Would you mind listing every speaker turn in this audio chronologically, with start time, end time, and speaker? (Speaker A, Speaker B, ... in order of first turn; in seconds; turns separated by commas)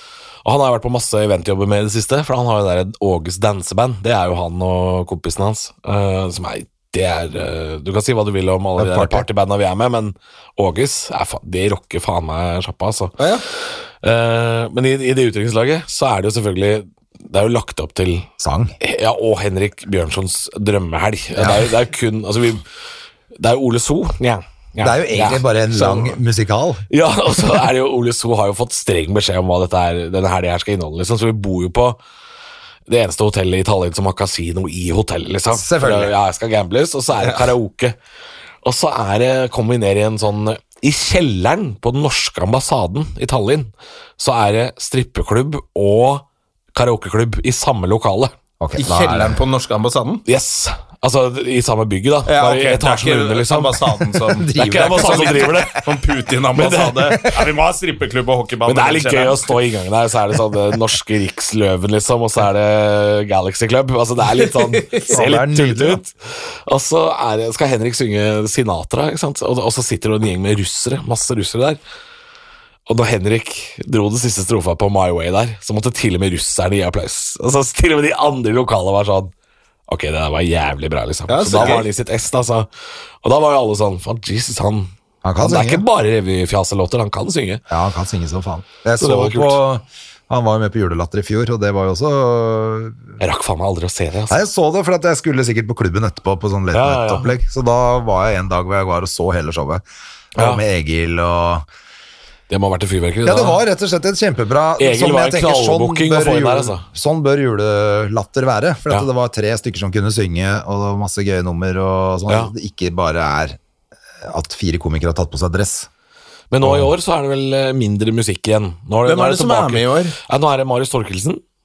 Speaker A: 0.4-18.3, Speaker B: 8.8-9.2, Speaker C: 13.2-13.4, Speaker B: 18.4-18.7, Speaker A: 18.8-22.6, Speaker B: 21.4-21.7, Speaker A: 23.4-26.1, Speaker B: 24.8-26.8, Speaker A: 26.9-32.0, Speaker A: 32.9-38.0, Speaker B: 35.5-36.1, Speaker A: 38.6-48.3, Speaker B: 48.6-49.4, Speaker C: 48.8-50.2, Speaker A: 50.2-55.9, Speaker C: 52.2-59.5, Speaker B: 54.3-55.7, Speaker A: 56.5-57.4, Speaker A: 58.6-71.8, Speaker C: 64.4-65.2, Speaker B: 65.1-66.0, Speaker A: 72.9-79.3, Speaker A: 79.9-82.7, Speaker C: 81.3-81.9, Speaker A: 83.2-87.6, Speaker B: 85.2-85.8, Speaker B: 87.7-93.0, Speaker A: 89.0-89.6, Speaker A: 93.2-94.4, Speaker B: 94.3-101.7, Speaker A: 96.7-97.3, Speaker A: 100.3-100.6, Speaker A: 102.5-103.6, Speaker B: 103.2-113.6, Speaker A: 104.8-106.8, Speaker B: 114.2-115.9, Speaker A: 116.5-121.4, Speaker B: 116.6-116.9, Speaker C: 119.0-120.2